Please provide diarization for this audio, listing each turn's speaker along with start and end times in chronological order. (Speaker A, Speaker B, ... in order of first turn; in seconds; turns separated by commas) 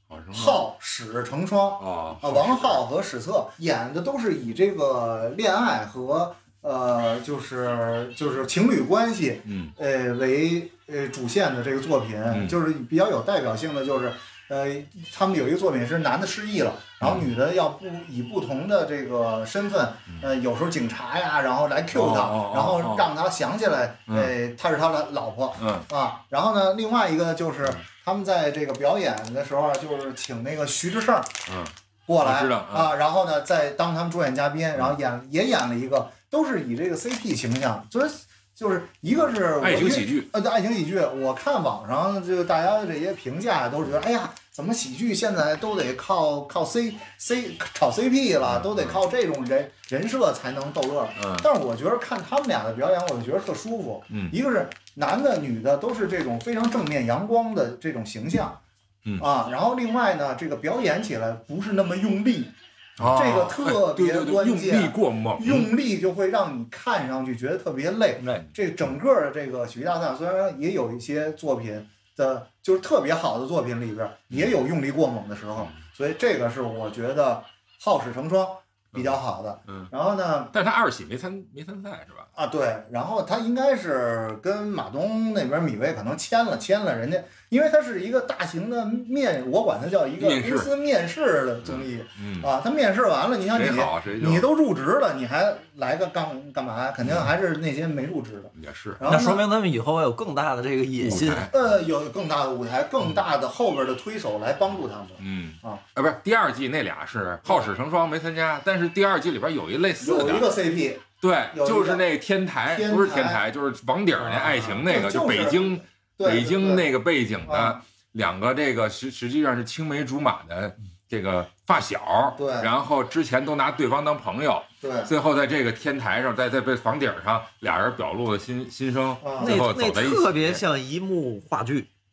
Speaker A: 0.1-0.6, Speaker B: 0.3-31.4, Speaker A: 1.8-2.8, Speaker A: 9.4-9.7, Speaker A: 12.3-12.6, Speaker A: 17.0-17.3, Speaker A: 21.9-23.1, Speaker A: 24.1-24.3, Speaker A: 25.6-25.9, Speaker A: 31.5-32.9, Speaker B: 32.1-58.6, Speaker A: 39.6-40.3, Speaker A: 48.4-49.0, Speaker A: 51.2-51.5, Speaker A: 54.1-54.4, Speaker B: 59.2-80.5, Speaker A: 63.0-65.7, Speaker A: 78.9-79.9, Speaker A: 80.5-82.3, Speaker B: 82.3-99.4, Speaker A: 90.2-90.7, Speaker A: 91.6-92.5, Speaker A: 93.5-94.5, Speaker A: 98.5-99.0, Speaker C: 99.0-101.5, Speaker A: 101.0-101.6, Speaker B: 101.4-105.8, Speaker A: 105.2-110.5, Speaker B: 110.0-112.0, Speaker A: 111.2-130.6, Speaker B: 112.7-113.4, Speaker B: 114.2-116.9, Speaker B: 117.4-117.8, Speaker B: 122.3-122.7, Speaker B: 124.8-125.1, Speaker B: 129.2-129.6, Speaker C: 129.4-131.9